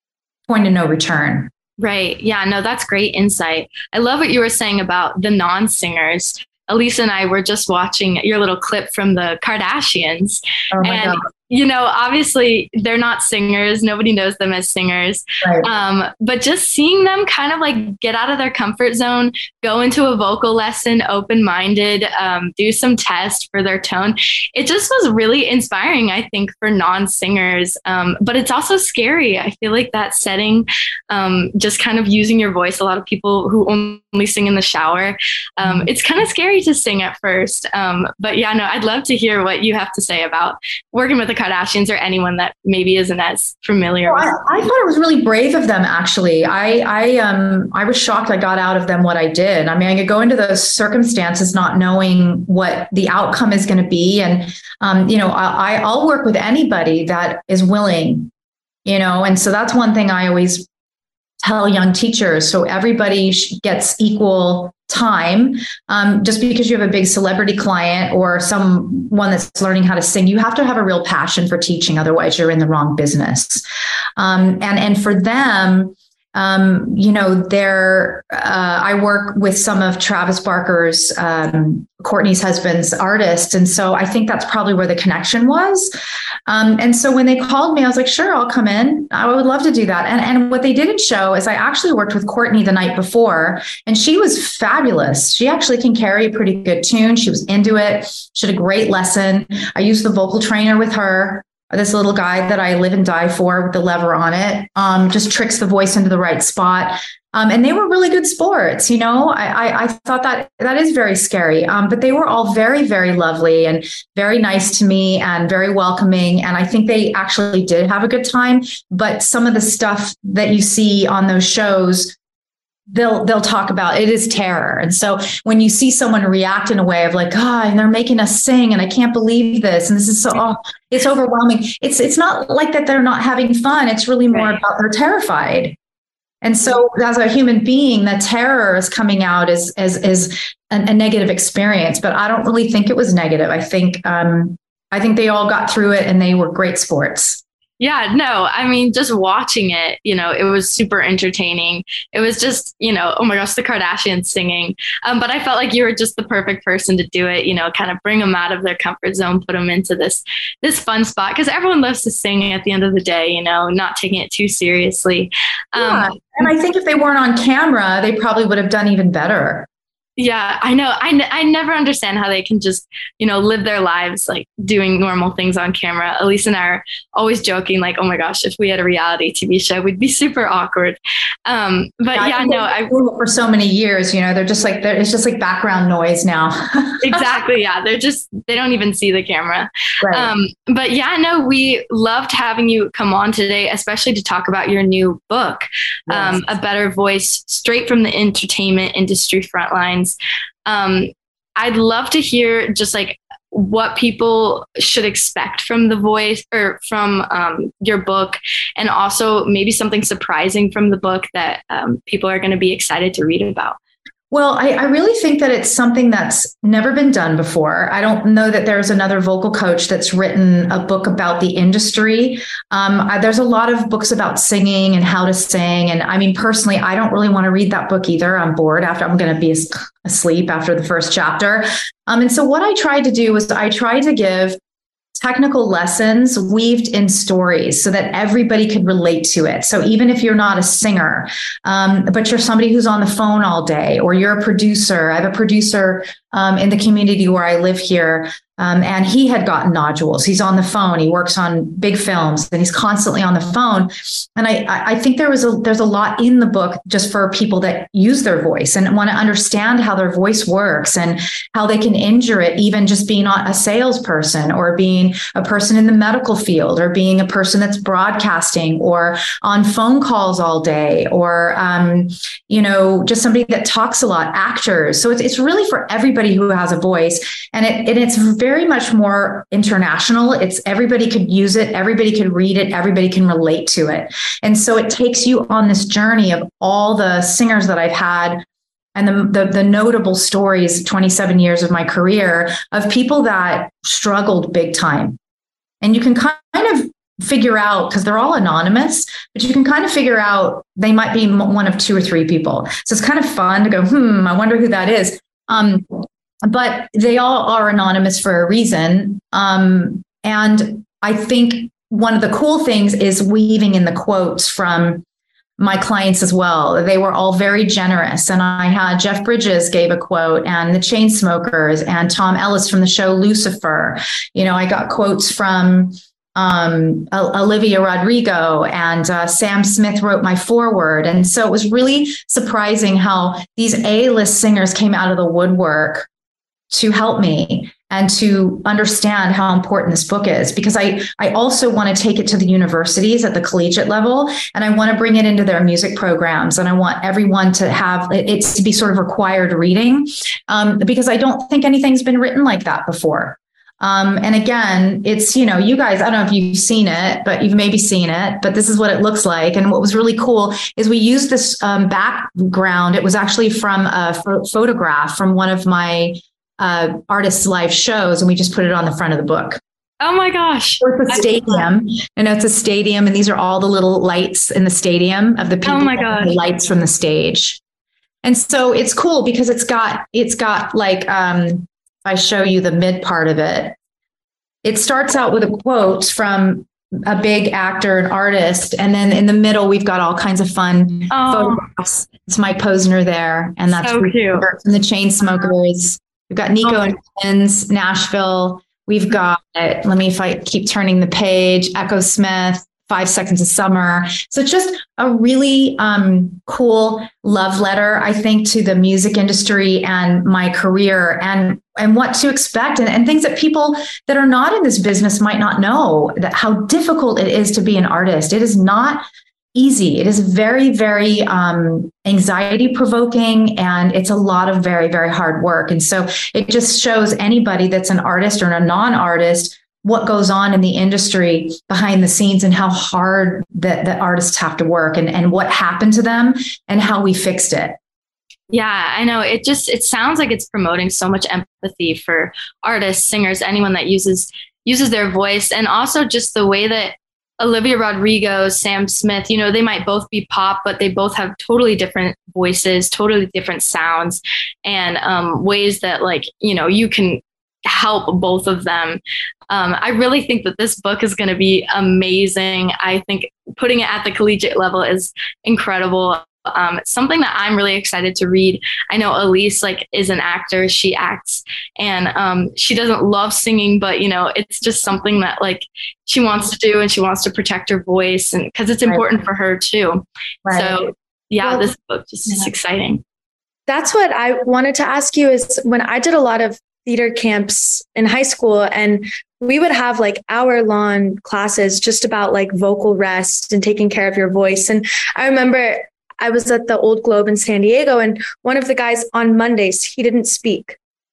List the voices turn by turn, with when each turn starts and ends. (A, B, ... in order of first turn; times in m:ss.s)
0:00.5-0:01.5 A
0:01.8-0:44.4 B
0:10.7-0:11.2 A
0:35.6-0:35.9 A
0:44.0-0:58.3 A
0:58.8-1:00.7 A
1:01.4-1:13.6 A
1:14.2-1:25.9 A
1:26.5-2:02.2 A
2:02.9-2:15.8 A
2:14.3-2:14.6 B
2:16.4-2:27.4 A
2:27.8-2:46.5 B
2:45.7-2:49.7 A
2:50.2-3:02.9 B
3:02.1-3:07.3 A
3:07.0-3:33.8 B
3:10.0-3:10.3 A
3:16.1-3:16.4 A
3:34.3-3:54.6 A
3:55.2-4:55.2 A
4:55.8-5:15.0 A
5:15.6-5:36.1 A
5:36.7-6:09.6 A
6:10.0-6:11.3 B
6:10.8-6:17.6 A
6:15.6-6:16.4 B
6:18.2-6:23.8 A
6:24.6-7:17.8 A
6:31.1-6:31.6 B
6:33.7-6:34.5 B
6:36.6-6:37.0 B
7:18.5-8:03.0 B
8:00.4-8:00.8 A
8:03.7-8:20.8 C